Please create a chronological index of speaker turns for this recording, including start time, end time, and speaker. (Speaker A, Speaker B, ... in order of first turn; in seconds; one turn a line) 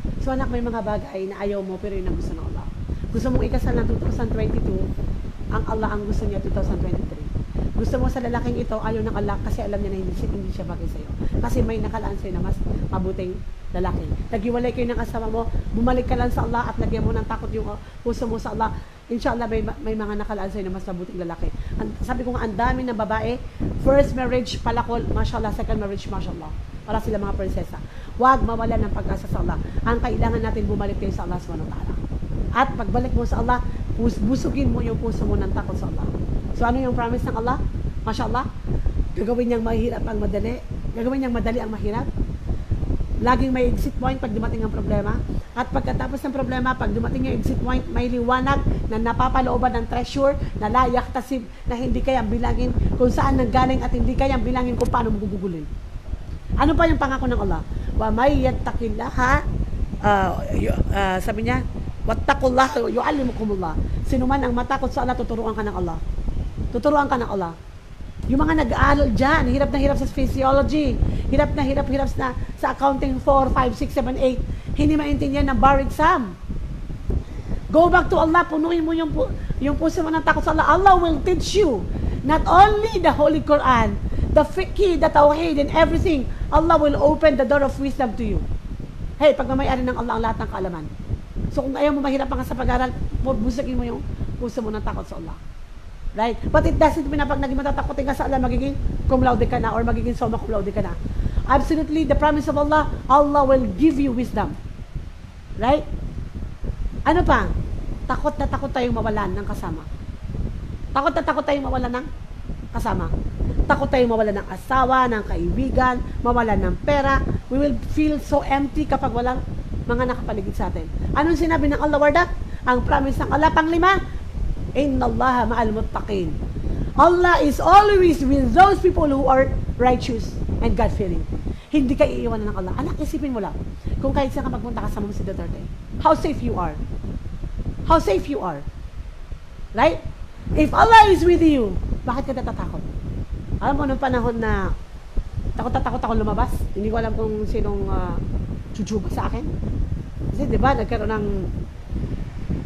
Speaker A: 0.2-4.9
Speaker A: 5.5-32.0
Speaker A: 32.6-38.5
Speaker A: 39.1-42.1
Speaker A: 43.2-55.7
Speaker A: 56.6-59.4
Speaker A: 60.0-66.0
Speaker A: 66.7-67.5
Speaker A: 68.3-76.3
Speaker A: 77.7-88.5
Speaker A: 89.2-90.9
Speaker A: 91.5-95.4
Speaker A: 96.2-101.0
Speaker A: 101.5-104.5
Speaker A: 107.1-107.5
Speaker A: 108.1-109.9
Speaker A: 110.9-112.1
Speaker A: 112.7-113.1
Speaker A: 113.7-124.0
Speaker A: 124.8-126.4
Speaker A: 127.0-136.8
Speaker A: 137.8-138.6
Speaker A: 140.6-142.8
Speaker A: 143.6-144.7
Speaker A: 145.6-148.2
Speaker A: 148.7-149.5
Speaker A: 150.3-151.5